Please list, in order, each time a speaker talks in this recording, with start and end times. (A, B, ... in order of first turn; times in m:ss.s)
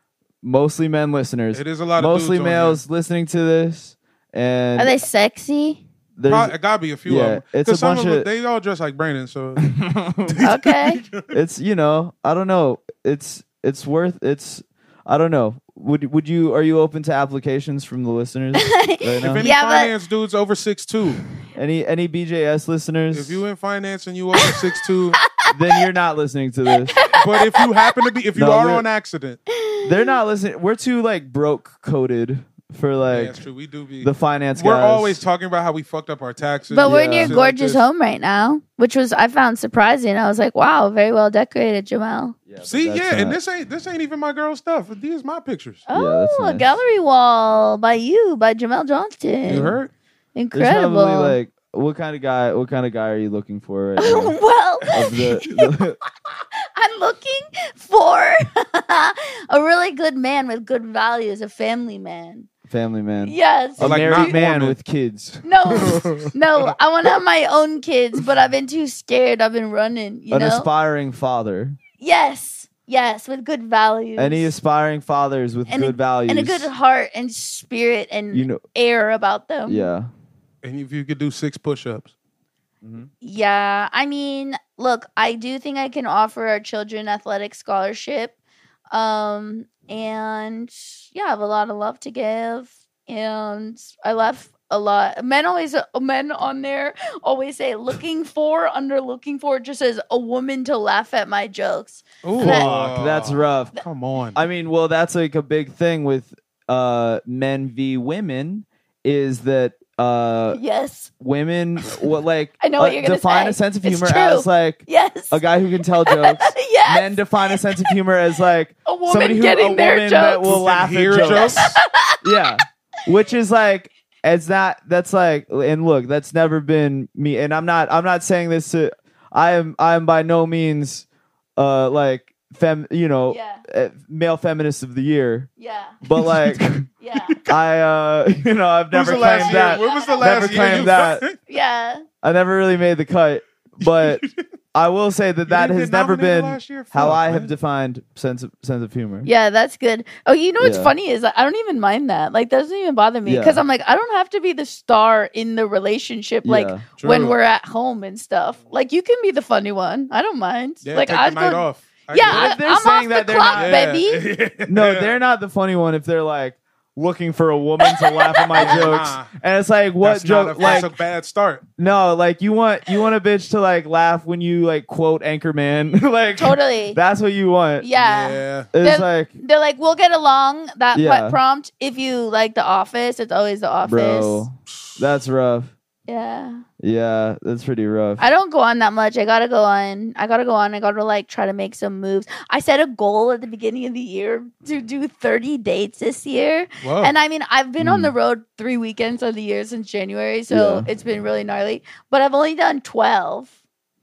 0:00.4-0:05.0 A
0:01.5-0:02.8 B
0:04.8-0:05.8 C
0:06.2-0:08.3 A
0:06.3-0:11.3 B
0:09.6-0:10.4 A
0:10.4-0:11.0 C
0:11.3-0:19.5 A
0:18.6-0:19.9 C
0:19.2-0:21.2 B
0:21.6-0:23.4 A
0:23.1-0:25.2 B
0:24.4-0:25.8 C
0:25.5-0:27.0 A
0:26.9-0:28.1 C
0:27.1-0:29.4 B
0:28.4-0:28.9 A
0:29.5-0:30.2 C
0:29.8-0:33.4 A
0:33.1-0:37.8 B
0:34.0-0:35.2 A
0:36.7-0:42.4 C
0:36.8-0:37.4 A
0:42.5-0:43.4 A
0:42.6-0:45.9 B
0:45.9-0:49.8 C
0:45.9-0:46.7 A
0:49.4-0:49.9 B
0:49.5-0:49.8 A
0:50.4-0:51.4 C
0:50.5-0:56.0 A
0:54.0-0:55.8 C
0:56.7-1:02.5 C
1:02.7-1:06.1 A
1:03.2-1:04.4 C
1:03.8-1:04.8 B
1:05.4-1:10.7 C
1:05.8-1:06.3 B
1:10.3-1:11.8 A
1:12.0-1:14.5 C
1:14.2-1:16.7 A
1:15.7-1:19.9 C
1:18.3-1:18.6 A
1:19.7-1:20.1 A
1:20.6-1:22.1 B
1:22.8-1:23.1 A
1:23.2-1:28.4 C
1:28.9-1:42.7 C
1:42.2-1:44.4 B
1:42.4-1:43.8 A
1:44.4-1:50.6 A
1:50.5-1:51.1 C
1:51.2-2:11.1 A
1:52.6-1:55.4 C
1:56.1-1:57.9 C
1:58.9-2:00.6 C
2:00.5-2:01.8 B
2:01.2-2:02.4 C
2:11.6-2:15.5 A
2:13.3-2:13.6 C
2:15.6-2:16.0 C
2:16.0-2:16.9 A
2:16.1-2:16.4 B
2:17.0-2:17.4 C
2:17.3-2:17.5 B
2:17.5-2:21.2 A
2:18.9-2:21.4 B
2:19.2-2:20.8 C
2:21.5-2:22.0 C
2:22.2-2:24.2 A
2:24.0-2:24.3 B
2:24.7-2:29.3 A
2:25.5-2:27.5 B
2:29.2-2:44.2 C
2:30.6-2:30.9 A
2:33.2-2:33.6 A
2:36.4-2:36.8 A
2:37.0-2:37.4 B
2:40.8-2:42.5 B
2:42.2-2:43.9 A
2:43.5-2:45.2 B
2:44.7-2:50.9 A
2:47.8-2:49.0 C
2:48.5-2:49.3 B
2:50.0-2:51.6 B
2:50.6-2:50.9 C
2:51.8-2:57.9 A
2:56.4-2:57.0 C
2:57.8-3:04.4 C
2:58.0-2:58.7 B
2:58.7-2:59.3 A
3:01.0-3:01.4 A
3:03.8-3:05.7 A
3:06.1-3:06.6 C
3:06.8-3:08.2 A
3:08.2-3:23.5 C
3:16.8-3:17.2 B
3:17.8-3:18.1 A
3:20.5-3:20.9 A